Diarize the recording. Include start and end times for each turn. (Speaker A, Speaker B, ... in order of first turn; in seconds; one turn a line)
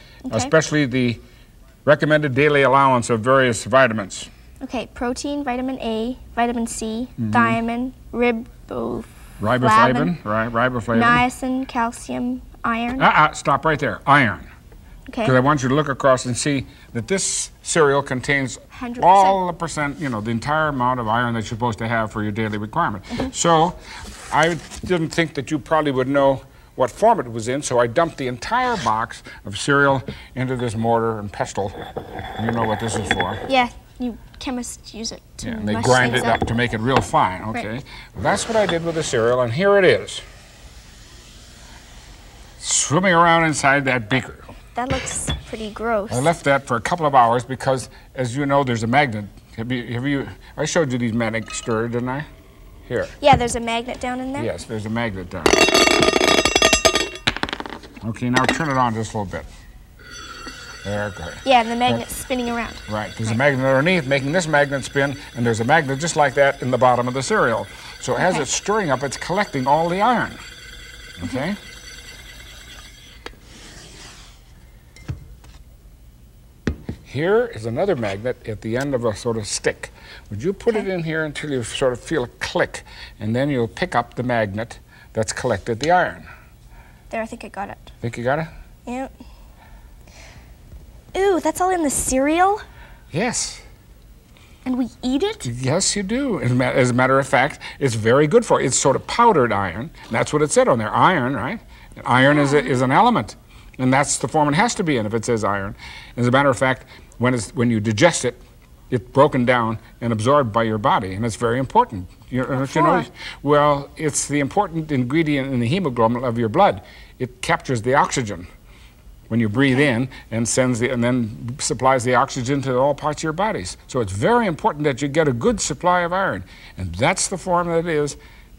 Speaker A: 0.3-0.5
Speaker B: 0.3-1.2
Speaker B: 1.9-4.3
Speaker A: 4.6-10.1
Speaker B: 7.2-7.6
Speaker B: 9.4-11.2
Speaker A: 10.9-13.1
Speaker B: 13.0-14.5
Speaker A: 15.1-15.4
Speaker B: 15.2-23.8
Speaker A: 18.7-19.4
Speaker B: 24.3-31.8
Speaker B: 32.4-33.4
Speaker A: 33.5-36.4
Speaker B: 35.4-40.2
Speaker B: 42.6-44.5
Speaker A: 44.8-46.3
Speaker B: 46.1-52.3
Speaker B: 52.9-53.2
Speaker A: 53.2-54.5
Speaker B: 54.4-55.6
Speaker B: 58.0-59.5
Speaker B: 60.8-62.0
Speaker A: 61.4-63.4
Speaker B: 62.9-70.4
Speaker A: 68.2-68.4
Speaker B: 71.2-71.6
Speaker B: 77.0-86.3
Speaker A: 87.1-87.9
Speaker B: 88.0-88.5
Speaker A: 88.8-89.1
Speaker A: 91.1-92.6
Speaker B: 93.1-93.6
Speaker A: 94.6-95.5
Speaker B: 95.4-118.5
Speaker A: 102.2-102.8
Speaker A: 112.5-113.1
Speaker B: 119.3-128.2